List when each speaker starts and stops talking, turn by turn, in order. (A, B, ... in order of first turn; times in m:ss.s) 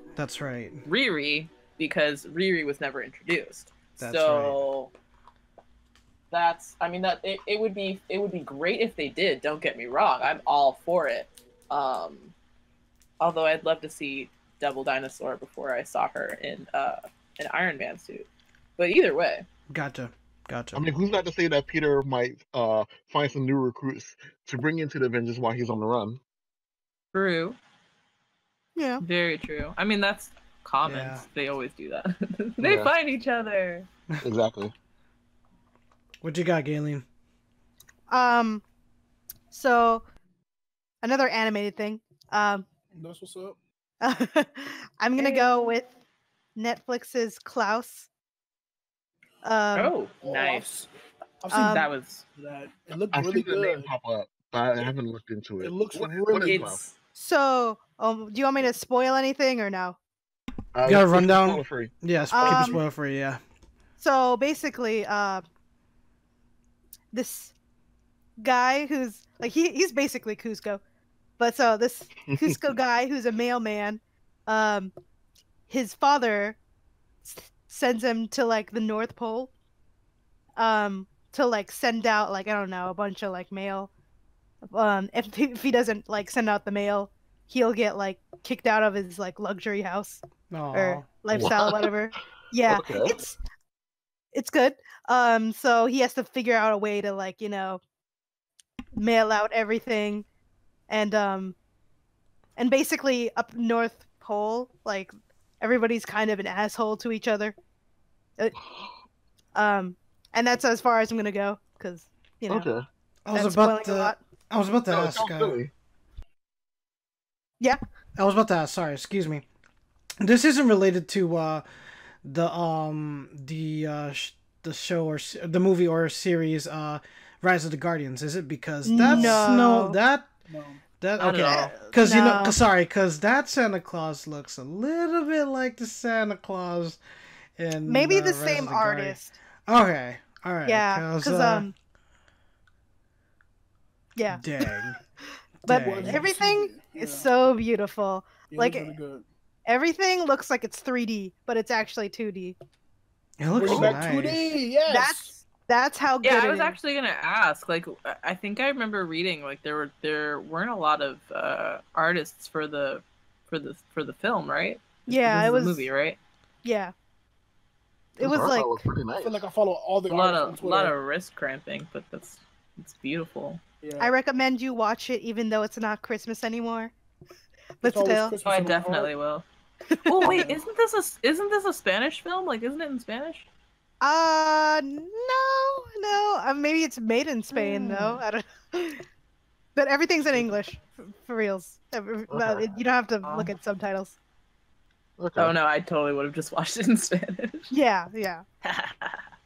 0:00.2-0:00.8 A
0:00.8-0:04.9 B
0:04.0-0:04.6 A
0:06.3-0:12.3 B
0:13.2-0:18.3 B
0:18.8-0:19.4 B
0:19.7-0:20.8 A
0:20.7-0:26.2 C
0:27.1-0:27.6 B
0:28.8-0:29.0 D
0:29.0-0:33.9 B
0:30.8-0:31.2 A
0:32.6-0:32.9 C
0:34.2-0:34.7 C
0:36.2-0:37.0 A
0:38.1-0:38.6 D
0:39.5-0:40.0 D
0:41.0-0:42.7 D
0:42.9-0:43.6 E
0:44.0-0:45.9 D
0:45.2-0:45.7 E
0:46.6-0:48.1 D
0:49.4-0:49.9 D
0:49.7-0:50.8 B
0:50.2-0:50.9 E
0:51.4-0:51.8 E
0:51.5-0:51.9 D
0:51.5-0:52.2 B
0:52.4-0:53.9 E
0:53.1-0:56.8 C
0:55.6-0:56.8 E
0:56.4-0:56.9 B
0:57.1-1:00.0 D
1:00.7-1:02.8 C
1:00.8-1:03.4 A
1:02.3-1:02.8 D
1:04.0-1:05.4 D
1:07.1-1:07.5 D
1:08.4-1:10.8 D
1:11.4-1:14.9 D
1:12.3-1:12.6 C
1:15.7-1:16.6 D
1:17.2-1:19.5 D
1:20.6-1:23.9 D
1:24.7-1:30.2 D
1:30.5-1:31.1 A
1:30.7-1:33.4 D
1:31.3-1:31.9 C
1:32.6-1:33.1 C
1:34.3-1:37.8 D
1:38.9-1:40.2 D
1:40.9-1:41.6 D
1:42.6-1:47.5 D
1:49.5-1:52.6 D
1:52.5-1:52.8 C
1:53.2-1:55.6 A
1:53.3-1:54.2 D
1:54.9-1:55.7 C
1:58.2-1:59.4 A
2:00.2-2:01.6 A
2:02.2-2:10.3 A
2:08.8-2:10.0 D
2:09.0-2:09.5 E
2:10.5-2:10.8 E
2:11.0-2:17.0 A
2:11.2-2:11.8 B
2:12.0-2:12.6 D
2:17.6-2:21.7 A
2:17.9-2:19.4 D
2:20.6-2:21.7 D
2:24.2-2:24.8 D
2:24.3-2:25.0 A
2:25.6-2:26.2 A
2:25.7-2:28.9 D
2:25.8-2:27.3 E
2:28.5-2:29.2 E
2:29.6-2:32.6 D
2:33.4-2:34.6 A
2:33.5-2:35.3 E
2:33.7-2:34.0 C
2:34.9-2:36.8 D
2:36.2-2:46.2 B
2:45.1-2:45.9 D
2:46.6-2:46.9 D
2:48.2-2:48.8 D
2:48.2-2:49.4 C
2:49.2-2:50.9 E
2:50.1-2:53.6 B
2:53.8-2:54.1 E
2:54.0-2:56.9 D
2:57.8-2:58.4 D
2:57.8-2:59.1 E
2:58.4-2:59.4 B
3:00.0-3:03.5 B
3:00.1-3:00.5 D
3:00.2-3:00.6 E
3:04.0-3:09.0 D
3:07.5-3:08.2 B
3:09.7-3:14.2 D
3:12.3-3:12.6 C
3:13.2-3:13.5 B
3:15.2-3:15.5 C
3:15.4-3:17.7 B
3:17.7-3:18.4 D
3:18.6-3:19.2 B